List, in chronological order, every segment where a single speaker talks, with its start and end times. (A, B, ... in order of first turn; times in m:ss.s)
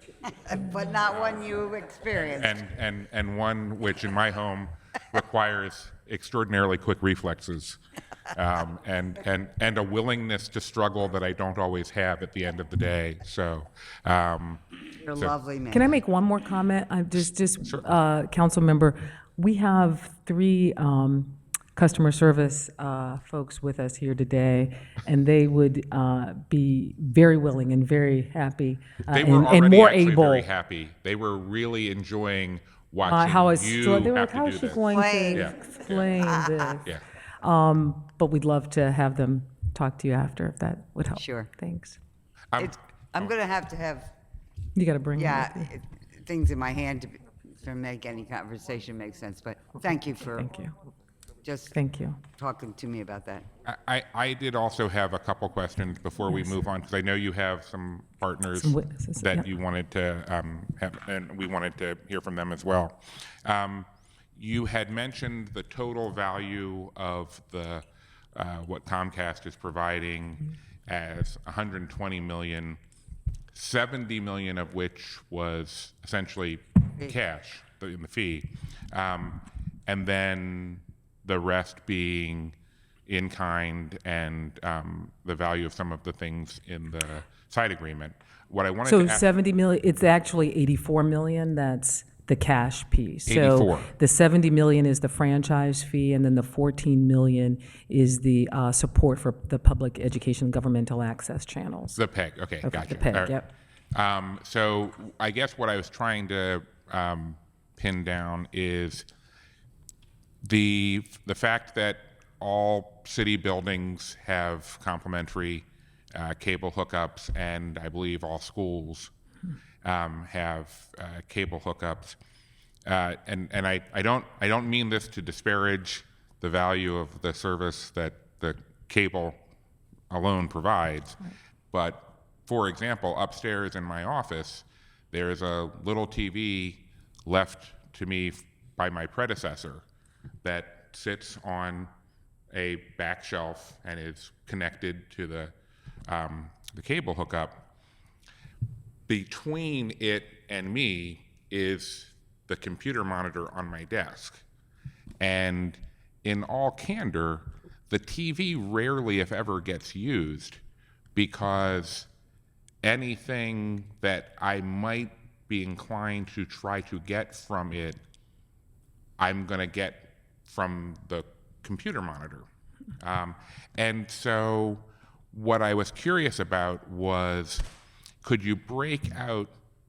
0:00.2-0:02.6 A
0:02.4-0:14.6 B
0:15.0-0:15.9 A
0:15.7-0:30.5 C
0:17.6-0:17.9 B
0:29.1-0:36.0 B
0:33.1-0:42.0 C
0:34.9-0:35.5 A
0:36.2-0:36.8 A
0:41.1-0:41.5 A
0:42.5-0:43.2 B
0:42.6-0:44.1 A
0:44.7-0:45.7 C
0:45.2-0:50.4 A
0:50.4-0:50.7 C
0:51.4-0:51.7 A
0:51.7-0:52.2 C
0:52.4-0:53.4 A
0:53.6-1:12.8 B
0:56.3-0:56.5 C
0:58.6-0:59.4 C
1:13.5-1:22.5 B
1:23.1-1:29.2 B
1:28.8-1:42.0 C
1:33.3-1:33.9 B
1:42.0-1:43.4 B
1:42.6-1:43.4 C
1:43.9-1:49.1 B
1:50.4-1:59.1 B
1:59.8-2:02.2 B
2:02.8-2:09.4 B
2:10.1-2:11.2 B
2:11.7-2:19.8 B
2:20.4-2:21.9 B
2:22.5-2:25.5 B
2:26.1-2:27.6 B
2:29.1-2:34.4 B
2:35.2-2:40.6 B
2:41.1-2:42.1 B
2:42.8-2:48.0 B
2:49.2-2:52.4 B
2:53.0-2:57.6 B
2:58.2-2:59.5 B